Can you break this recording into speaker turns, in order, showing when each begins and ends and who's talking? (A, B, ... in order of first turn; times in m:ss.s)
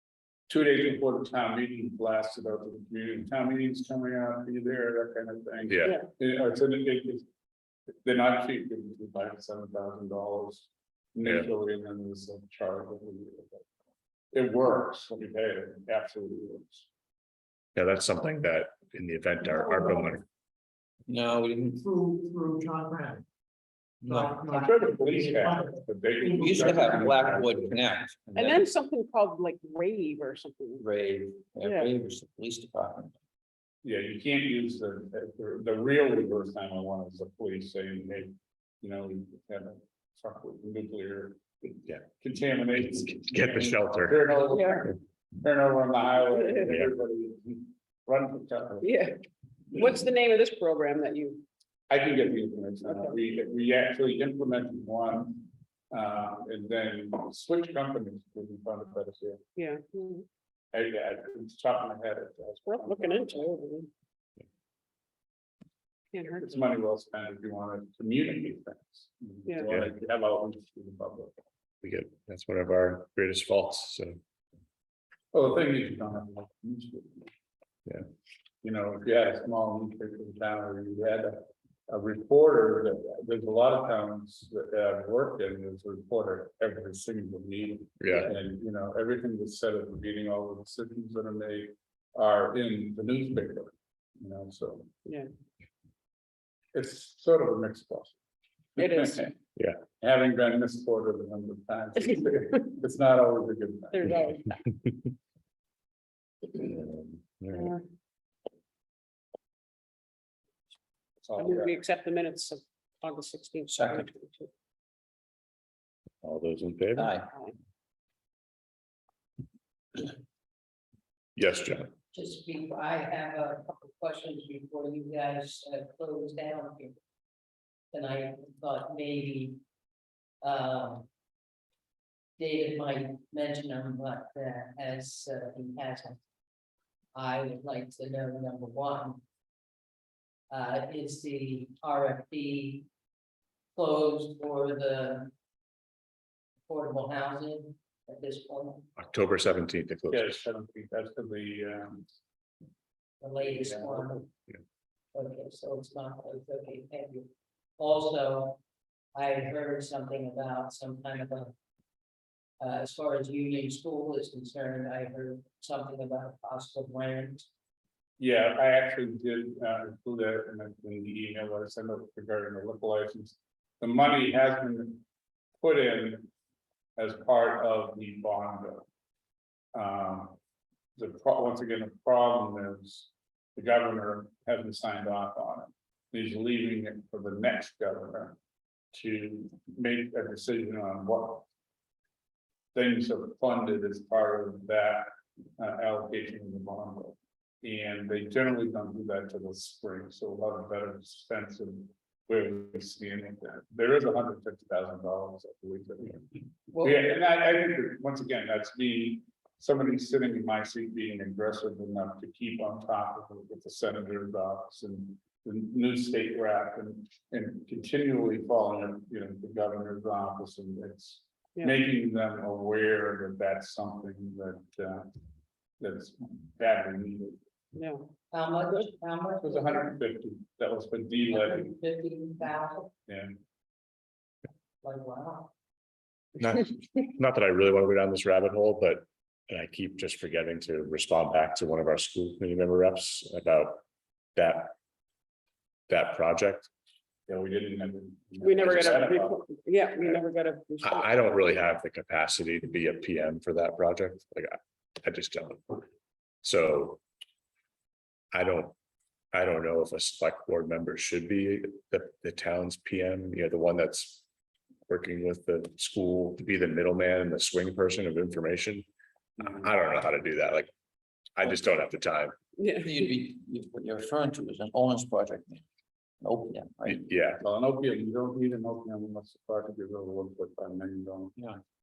0:00.5-0:07.2 A
0:05.7-0:06.0 B
0:08.0-0:13.6 A
0:11.2-0:11.5 B
0:14.3-0:16.9 A
0:17.8-0:20.2 B
0:21.1-0:21.8 C
0:21.8-0:23.2 D
0:24.0-0:24.3 C
0:24.1-0:24.7 E
0:24.3-0:27.0 D
0:24.6-0:27.8 A
0:26.4-0:28.6 C
0:28.3-0:30.9 F
0:30.8-0:33.1 C
0:31.6-0:31.9 F
0:33.8-0:49.0 A
0:43.0-0:44.2 B
0:44.5-0:44.8 F
0:46.3-0:46.7 F
0:48.8-0:49.2 F
0:49.7-0:51.4 F
0:51.9-0:59.4 A
0:52.9-0:53.1 F
0:59.6-1:00.2 F
1:00.7-1:03.5 A
1:02.7-1:03.9 F
1:06.1-1:06.6 F
1:06.4-1:11.3 A
1:11.8-1:14.2 B
1:15.3-1:17.3 A
1:18.6-1:34.9 A
1:28.0-1:28.3 B
1:36.7-1:38.2 A
1:38.8-1:39.2 F
1:38.8-1:39.4 A
1:40.0-1:44.1 A
1:43.9-1:44.6 F
1:46.5-1:47.7 B
1:47.5-1:47.8 F
1:51.2-1:51.7 A
1:51.4-1:54.5 F
1:53.7-1:54.1 C
1:56.2-1:57.1 B
1:57.0-1:57.3 C
1:57.3-1:57.5 F
2:01.4-2:01.9 B
2:02.1-2:06.9 E
2:07.9-2:09.6 E
2:10.4-2:11.1 E
2:12.4-2:16.2 E
2:17.1-2:19.2 E
2:20.5-2:22.8 E
2:23.7-2:25.3 E
2:26.7-2:28.9 E
2:29.0-2:30.4 B
2:30.1-2:32.1 A
2:33.2-2:34.3 E
2:33.4-2:34.2 A
2:35.1-2:37.3 E
2:37.8-2:38.6 E
2:39.1-2:41.5 E
2:42.6-2:47.4 E
2:48.2-2:55.0 A
2:55.6-2:56.3 A
2:57.0-2:58.8 A
2:59.7-3:00.4 A
3:01.0-3:08.4 A
3:08.9-3:11.5 A
3:12.7-3:45.1 A
3:26.7-3:27.0 E
3:45.8-3:47.4 A
3:47.7-3:48.0 F
3:48.3-3:49.9 E
3:49.4-3:51.7 A
3:51.3-3:52.9 E
3:53.1-3:53.4 A
3:54.8-3:55.5 E
3:56.4-4:03.8 B
4:04.4-4:04.7 B
4:05.9-4:06.7 B
4:07.3-4:09.4 A
4:08.4-4:11.1 F
4:10.8-4:15.8 B
4:16.4-4:17.0 B
4:18.3-4:18.7 B
4:19.3-4:24.2 B
4:24.9-4:28.8 B
4:29.4-4:30.7 B
4:29.4-4:29.6 A
4:31.4-4:32.3 B
4:32.6-4:33.0 F
4:32.8-4:35.6 C
4:36.2-4:37.0 C
4:36.8-4:37.4 B
4:37.4-4:41.4 A